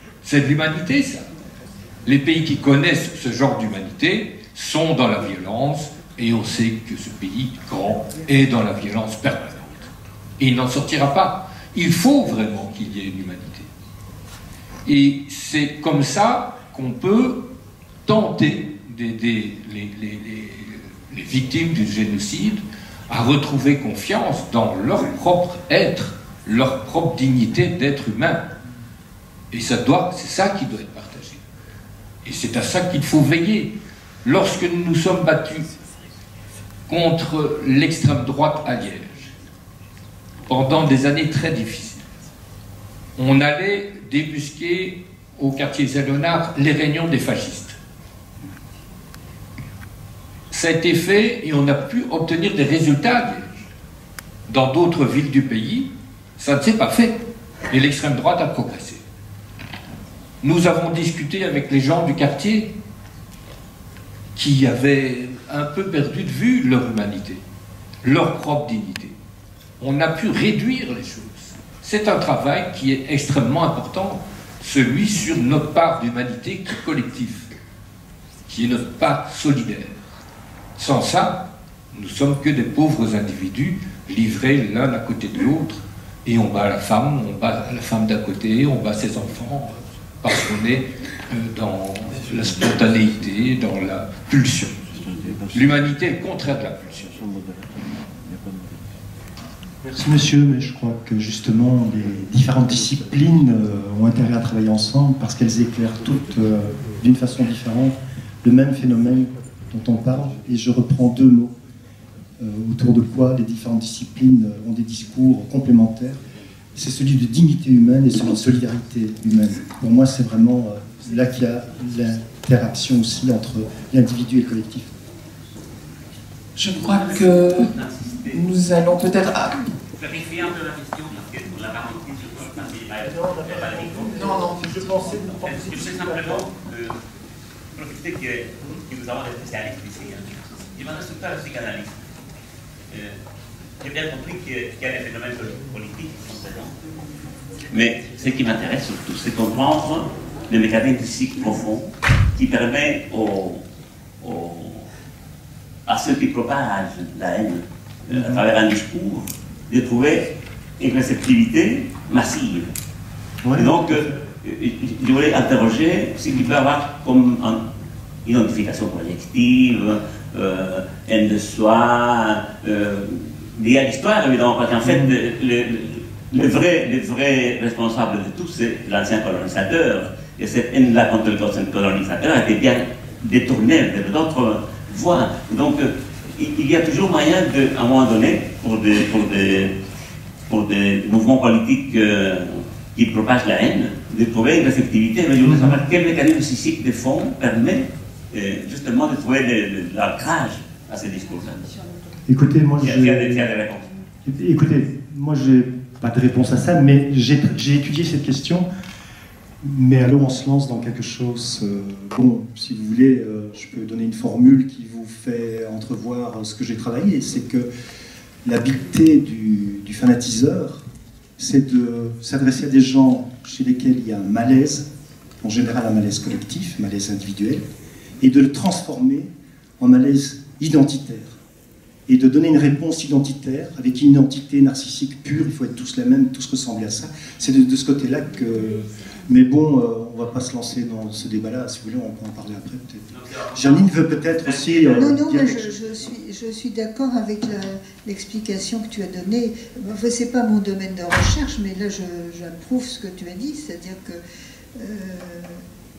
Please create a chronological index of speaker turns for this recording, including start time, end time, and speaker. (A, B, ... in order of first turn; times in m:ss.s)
0:00.2-0:01.3 A
0:02.0-0:13.7 A
0:14.8-0:17.4 A
0:18.0-0:28.4 A
0:29.5-0:31.4 A
0:32.2-0:33.7 A
0:34.2-0:35.7 A
0:36.9-0:39.4 A
0:40.5-0:42.0 A
0:43.2-0:47.8 A
0:50.5-0:53.5 A
0:54.5-0:57.2 A
0:57.7-0:59.0 A
1:00.4-1:02.7 A
1:04.4-1:07.4 A
1:08.0-1:09.2 A
1:09.8-1:17.5 A
1:18.5-1:20.0 A
1:20.8-1:21.4 A
1:21.9-1:37.2 A
1:39.9-1:51.6 B
1:52.4-1:56.2 B
1:56.8-2:04.9 B
2:06.6-2:07.7 C
2:06.8-2:08.4 D
2:08.3-2:09.5 C
2:10.0-2:14.3 D
2:13.7-2:14.3 B
2:14.1-2:16.4 C
2:15.2-2:17.0 D
2:17.8-2:22.0 D
2:23.8-2:26.7 D
2:27.7-2:33.6 D
2:34.2-2:34.9 D
2:35.9-2:40.3 D
2:40.8-2:42.7 D
2:43.4-2:44.0 B
2:43.6-2:47.6 D
2:48.2-3:09.7 D
3:10.5-3:21.7 D
3:15.4-3:15.8 B
3:22.3-3:23.5 B
3:22.8-3:23.8 D
3:24.2-3:28.7 B
3:29.6-3:37.7 B
3:38.4-3:40.8 B
3:41.4-3:44.9 B
3:45.4-3:47.6 B
3:48.2-3:51.4 B
3:52.1-4:05.7 B
4:03.1-4:05.0 D
4:04.8-4:14.2 E
4:14.8-4:15.6 E